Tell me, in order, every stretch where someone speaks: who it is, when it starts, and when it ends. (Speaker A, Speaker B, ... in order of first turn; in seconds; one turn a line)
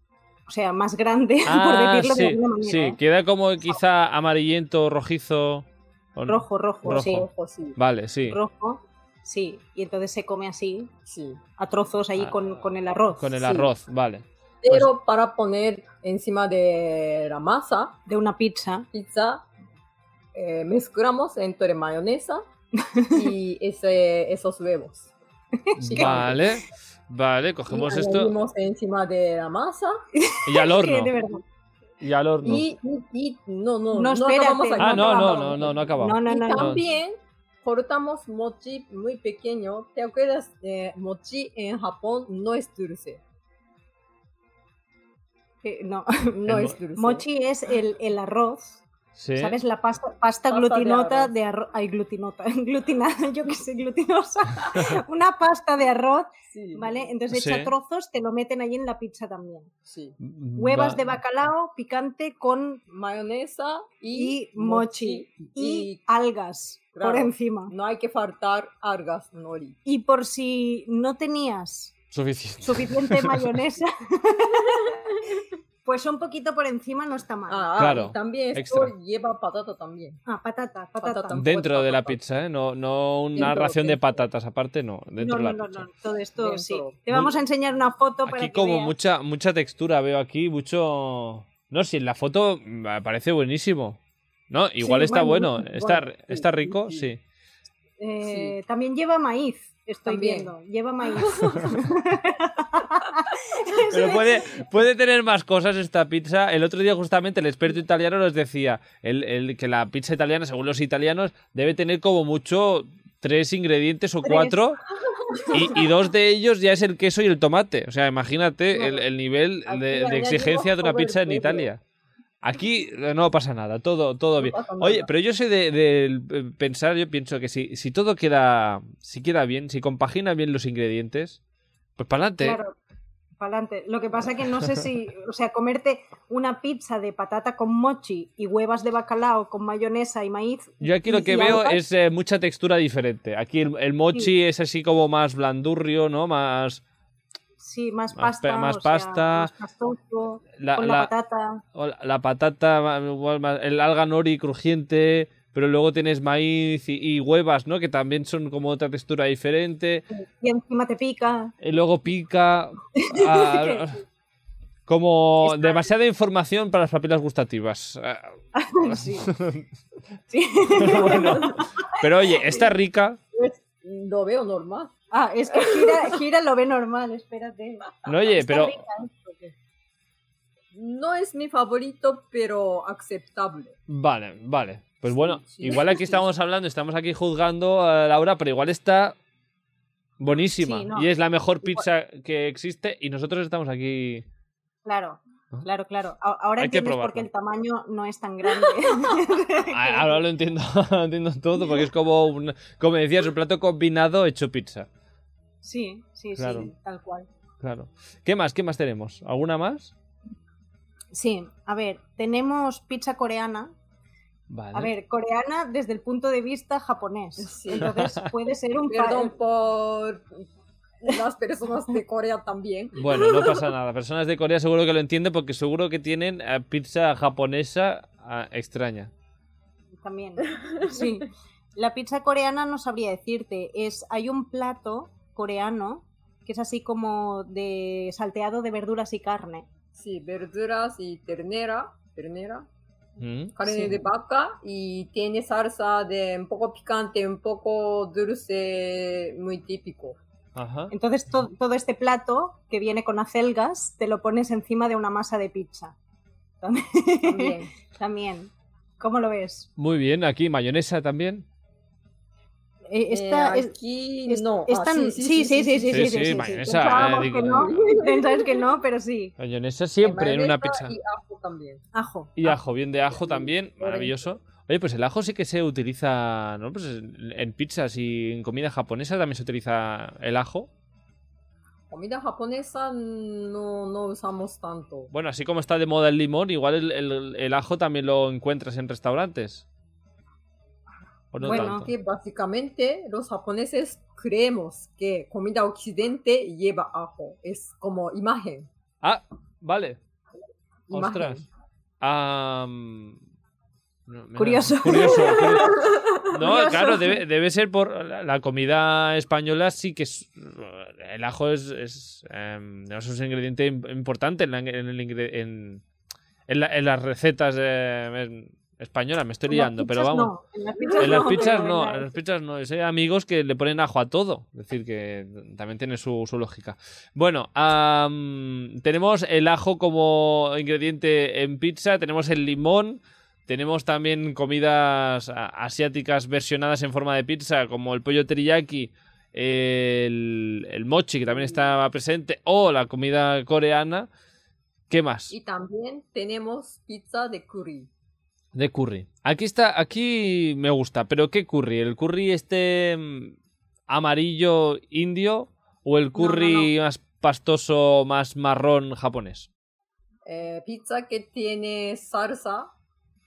Speaker A: 0.5-3.0
Speaker B: 1.4-8.4
Speaker A: 6.3-7.2
Speaker C: 6.8-7.8
Speaker A: 8.3-10.9
Speaker C: 11.1-11.4
Speaker A: 11.6-13.4
Speaker B: 13.2-14.9
Speaker C: 13.4-13.7
Speaker C: 14.6-18.0
Speaker A: 18.1-18.9
Speaker C: 18.9-19.4
Speaker C: 20.3-22.4
Speaker A: 22.8-23.3
Speaker C: 23.1-25.1
Speaker A: 25.6-26.4
Speaker B: 25.8-28.3
Speaker C: 25.8-26.4
Speaker C: 27.7-30.0
Speaker A: 30.1-31.4
Speaker B: 30.4-31.1
Speaker B: 32.0-32.7
Speaker C: 32.4-43.2
Speaker A: 33.9-36.8
Speaker B: 34.8-36.8
Speaker A: 45.6-48.8
Speaker C: 46.4-47.2
Speaker B: 46.5-46.8
Speaker B: 49.1-49.6
Speaker A: 49.4-59.7
Speaker C: 50.5-51.3
Speaker C: 56.5-57.1
Speaker B: 57.3-57.7
Speaker C: 59.9-60.2
Speaker B: 60.2-61.1
Speaker A: 60.5-62.8
Speaker C: 62.9-66.0
Speaker A: 64.1-67.7
Speaker C: 66.9-69.8
Speaker A: 69.8-71.9
Speaker B: 72.1-73.5
Speaker A: 72.6-75.0
Speaker A: 75.8-77.7
Speaker C: 77.5-80.2
Speaker B: 77.8-78.9
Speaker A: 80.2-81.4
Speaker C: 81.0-82.2
Speaker B: 81.3-85.8
Speaker C: 83.3-84.2
Speaker A: 85.2-88.9
Speaker C: 86.4-87.0
Speaker B: 88.2-94.0
Speaker B: 94.5-97.2
Speaker A: 94.8-96.0
Speaker C: 96.3-97.1
Speaker A: 98.0-104.6
Speaker C: 98.2-98.5
Speaker C: 100.0-100.5
Speaker C: 101.1-101.7
Speaker B: 103.9-114.8
Speaker A: 114.2-114.6
Speaker A: 115.4-115.7
Speaker B: 115.5-121.8
Speaker A: 119.7-120.5
Speaker C: 120.0-121.7
Speaker B: 122.4-131.4
Speaker C: 124.4-125.1
Speaker B: 132.0-132.6
Speaker A: 132.4-132.7
Speaker A: 133.4-141.8
Speaker B: 140.8-146.8
Speaker A: 147.6-151.6
Speaker B: 148.1-149.5
Speaker B: 150.6-151.1
Speaker B: 151.7-160.0
Speaker A: 160.1-161.5
Speaker B: 161.6-164.0
Speaker A: 162.9-163.9
Speaker B: 164.9-169.7
Speaker A: 165.4-165.9
Speaker A: 168.5-169.3
Speaker A: 170.3-172.7
Speaker B: 170.7-173.2
Speaker C: 173.3-174.9
Speaker A: 175.1-179.5
Speaker C: 175.5-176.2
Speaker B: 178.1-178.8
Speaker C: 180.7-183.8
Speaker B: 183.9-189.2
Speaker C: 185.1-186.2
Speaker B: 190.2-194.2
Speaker A: 190.6-191.1
Speaker A: 194.8-200.2
Speaker B: 196.6-197.3
Speaker B: 199.7-204.9
Speaker A: 205.6-207.3
Speaker B: 206.4-206.7
Speaker B: 207.6-209.9
Speaker A: 211.1-213.7
Speaker B: 214.5-214.9
Speaker A: 214.7-219.3
Speaker C: 217.4-217.9
Speaker B: 217.8-218.2
Speaker C: 218.9-220.4
Speaker C: 221.0-223.7
Speaker B: 223.0-229.1
Speaker A: 230.0-239.7
Speaker C: 230.5-231.1
Speaker C: 239.9-242.7
Speaker B: 243.2-243.5
Speaker C: 243.6-250.2
Speaker A: 243.7-243.9
Speaker B: 250.5-250.9
Speaker A: 250.9-255.9
Speaker A: 256.6-259.7
Speaker C: 257.2-257.7
Speaker B: 259.8-261.4
Speaker A: 262.9-263.7
Speaker C: 263.1-268.6
Speaker A: 264.3-269.3
Speaker B: 265.9-267.8
Speaker B: 269.4-270.9
Speaker C: 270.0-271.8
Speaker A: 271.9-272.6
Speaker B: 272.4-280.7
Speaker C: 273.1-274.2
Speaker C: 281.9-285.1
Speaker B: 285.1-289.6
Speaker B: 291.3-291.9
Speaker C: 291.4-298.7
Speaker A: 291.4-291.9
Speaker B: 299.0-300.0
Speaker C: 300.9-301.4
Speaker B: 300.9-301.4
Speaker B: 302.0-303.2
Speaker B: 304.1-315.8
Speaker A: 304.4-307.2
Speaker B: 316.5-320.3
Speaker A: 319.5-322.1
Speaker B: 321.0-344.1
Speaker B: 344.9-345.3
Speaker C: 345.3-347.9
Speaker B: 348.5-353.4
Speaker B: 353.9-359.5
Speaker A: 356.1-356.7
Speaker C: 360.2-362.7